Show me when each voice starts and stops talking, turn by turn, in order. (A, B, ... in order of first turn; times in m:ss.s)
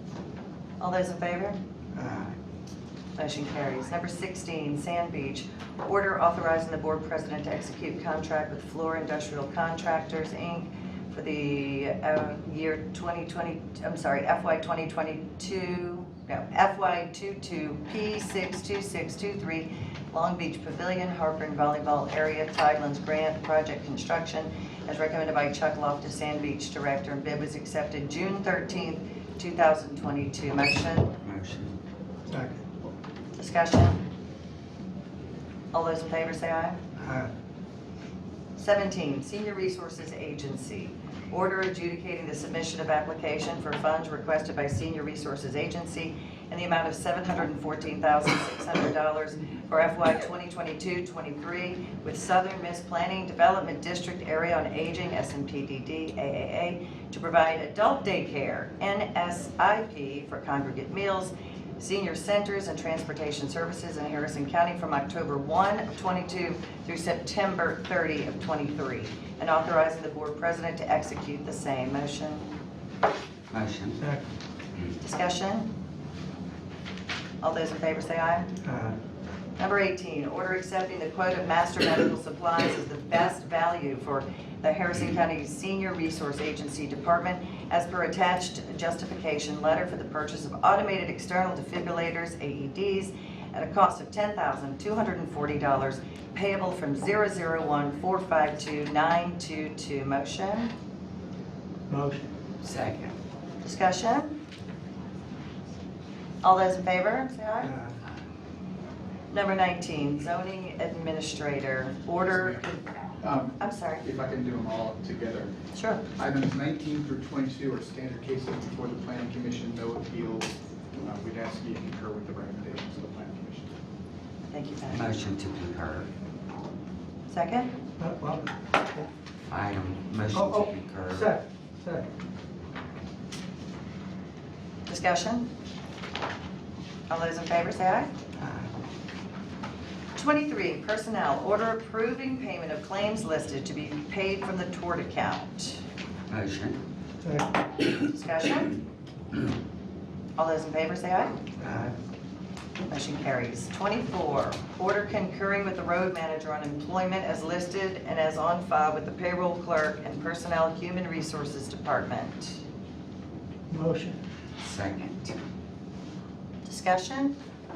0:00.8-0:01.6 A
0:02.0-0:02.3 B
0:03.2-0:31.1 A
0:31.2-0:31.8 C
0:32.3-0:32.7 B
0:33.4-0:34.0 A
0:35.7-0:36.8 A
0:38.6-1:12.5 A
1:13.5-1:14.0 C
1:15.0-1:15.7 A
1:17.4-1:18.5 A
1:18.6-1:19.0 B
1:19.6-1:40.7 A
1:41.9-1:42.3 B
1:42.6-1:43.2 C
1:43.6-1:44.3 A
1:46.4-1:47.7 A
1:47.6-1:47.9 B
1:49.3-1:52.8 A
1:52.3-1:52.6 D
1:53.2-1:55.5 D
1:53.6-1:54.0 A
1:55.7-1:56.0 A
1:56.2-2:03.7 D
2:04.5-2:05.1 A
2:04.9-2:06.1 C
2:07.3-2:07.7 A
2:08.0-2:09.1 B
2:09.5-2:11.3 C
2:10.3-2:12.1 B
2:14.9-2:15.5 A
2:17.1-2:18.1 A
2:20.2-2:25.8 A
2:26.3-2:26.8 C
2:27.2-2:27.5 B
2:28.0-2:28.7 A
2:30.4-2:31.4 A
2:31.6-2:31.9 B
2:32.9-2:42.6 A
2:43.7-2:44.2 B
2:44.6-2:45.4 C
2:46.7-2:47.4 A